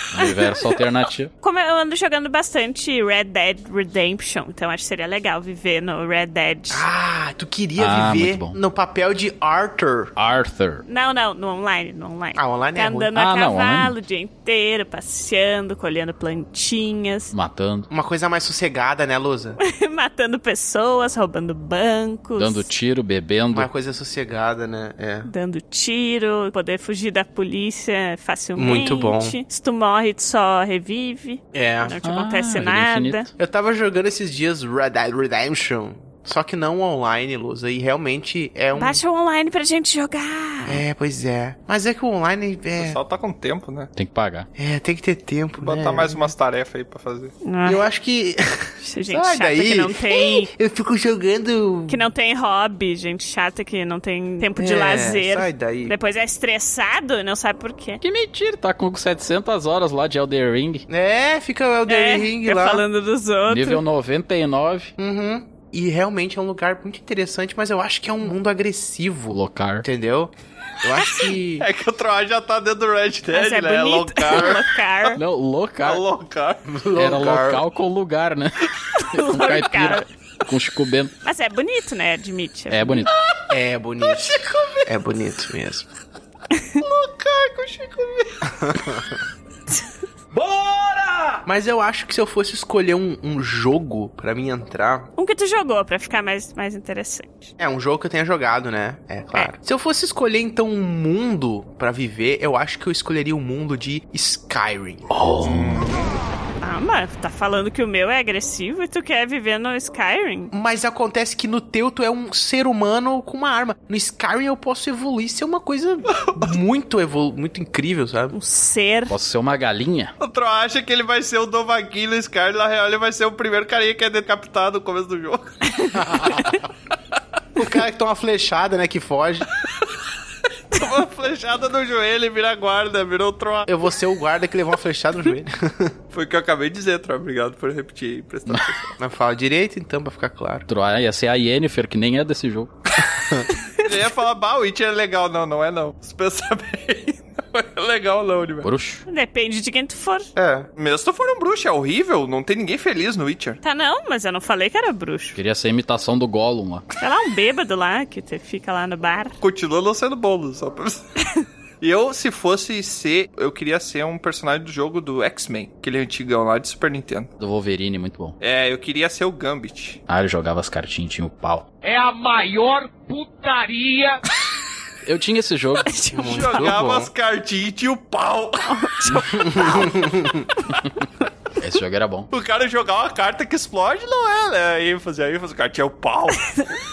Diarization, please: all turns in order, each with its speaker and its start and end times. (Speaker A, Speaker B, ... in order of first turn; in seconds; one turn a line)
Speaker A: 0.1-1.3
Speaker B: 1.4-6.9
Speaker C: 6.7-10.1
Speaker A: 7.8-8.6
Speaker A: 10.2-10.8
Speaker B: 10.9-17.3
Speaker C: 12.3-13.1
Speaker A: 13.1-13.9
Speaker A: 17.3-17.9
Speaker C: 17.9-19.6
Speaker B: 19.6-22.7
Speaker A: 22.4-23.7
Speaker C: 23.5-25.3
Speaker B: 25.2-33.3
Speaker C: 28.6-29.4
Speaker C: 31.5-31.9
Speaker A: 32.0-33.3
Speaker C: 33.4-39.0
Speaker B: 38.7-40.8
Speaker C: 40.6-43.0
Speaker D: 42.8-43.9
Speaker A: 43.9-44.5
Speaker C: 44.6-46.3
Speaker D: 45.6-47.3
Speaker B: 47.4-47.8
Speaker C: 47.6-52.0
Speaker B: 48.8-50.5
Speaker B: 51.9-58.0
Speaker C: 54.4-55.9
Speaker A: 58.0-60.9
Speaker C: 60.9-62.8
Speaker B: 61.9-63.8
Speaker A: 63.5-64.9
Speaker C: 65.0-71.7
Speaker A: 69.3-69.8
Speaker D: 71.6-74.6
Speaker B: 73.3-75.2
Speaker A: 75.2-76.0
Speaker D: 75.8-76.6
Speaker C: 76.7-77.6
Speaker A: 76.9-81.1
Speaker B: 79.0-80.1
Speaker B: 81.2-83.1
Speaker A: 82.7-83.1
Speaker C: 83.5-85.9
Speaker D: 84.0-84.8
Speaker B: 86.6-86.8
Speaker D: 86.8-88.3
Speaker C: 88.5-89.1
Speaker C: 91.5-95.1
Speaker B: 95.2-97.5
Speaker C: 97.6-105.1
Speaker A: 105.1-105.9
Speaker D: 105.4-106.0
Speaker B: 106.6-110.5
Speaker C: 110.5-118.3
Speaker B: 118.3-119.1
Speaker A: 119.1-120.1
Speaker D: 120.2-125.6
Speaker B: 125.7-126.0
Speaker C: 126.0-126.5
Speaker C: 127.5-129.5
Speaker D: 130.7-133.7
Speaker C: 133.7-135.9
Speaker D: 136.1-139.0
Speaker C: 139.0-140.7
Speaker A: 140.7-142.7
Speaker C: 143.1-143.4
Speaker D: 143.8-148.7
Speaker A: 148.6-149.0
Speaker B: 149.1-150.3
Speaker C: 150.3-150.7
Speaker D: 150.8-153.6
Speaker B: 153.6-155.4
Speaker A: 155.3-156.8
Speaker B: 157.0-159.4
Speaker D: 159.4-161.0
Speaker D: 161.8-167.3
Speaker A: 167.4-168.3
Speaker D: 168.4-170.0
Speaker A: 170.1-171.6
Speaker E: 171.8-174.2
Speaker A: 175.0-175.9
Speaker B: 175.9-176.5
Speaker C: 176.1-177.1
Speaker D: 176.2-178.9
Speaker B: 178.7-179.8
Speaker C: 179.3-180.5
Speaker A: 181.6-182.3
Speaker D: 182.3-186.6